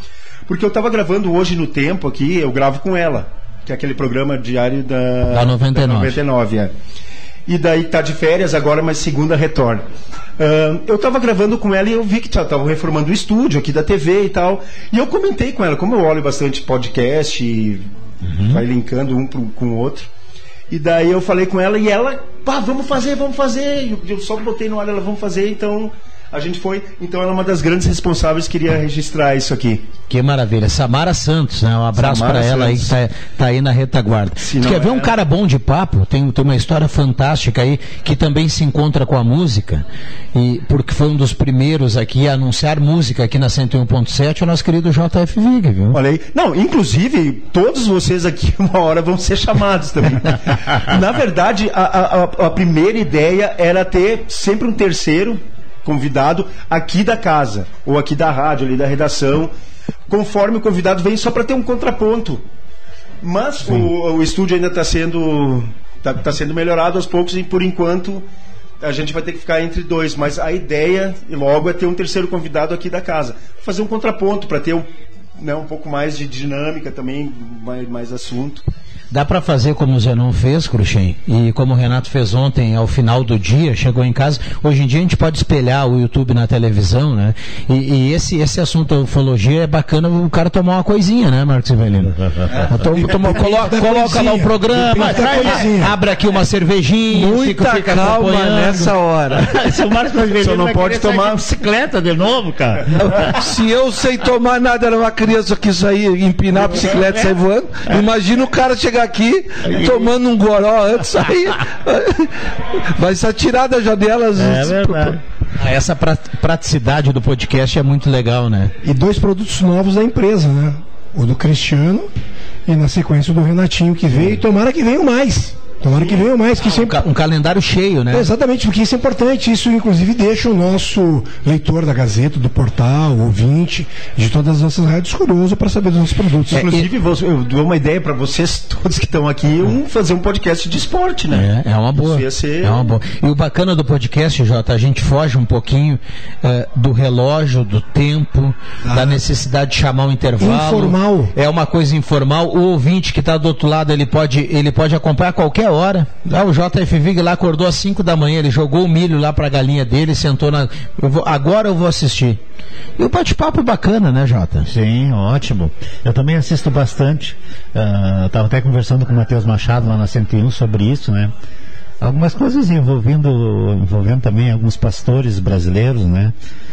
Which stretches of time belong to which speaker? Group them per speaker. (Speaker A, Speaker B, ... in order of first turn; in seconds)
Speaker A: 0.5-6.7, 7.5-9.8, 10.4-20.1, 20.7-29.8, 31.9-32.9, 34.4-35.1, 45.9-59.5, 60.1-62.4, 63.2-68.2, 68.8-78.6, 100.4-101.4, 136.5-142.9
Speaker B: 5.3-6.2, 30.1-46.0, 79.1-92.1, 92.7-98.9, 115.6-118.7, 126.7-128.3, 136.5-136.8, 141.3-162.4, 163.0-164.7
Speaker C: 92.2-92.7, 94.8-95.7, 99.3-103.5, 106.6-108.0, 109.6-110.1, 114.3-115.2, 164.7-171.3, 172.0-176.3
Speaker D: 92.7-96.0, 118.8-122.1, 122.7-127.0, 128.1-136.7, 148.8-149.2, 150.4-151.3
Speaker E: 97.1-99.5, 103.0-115.2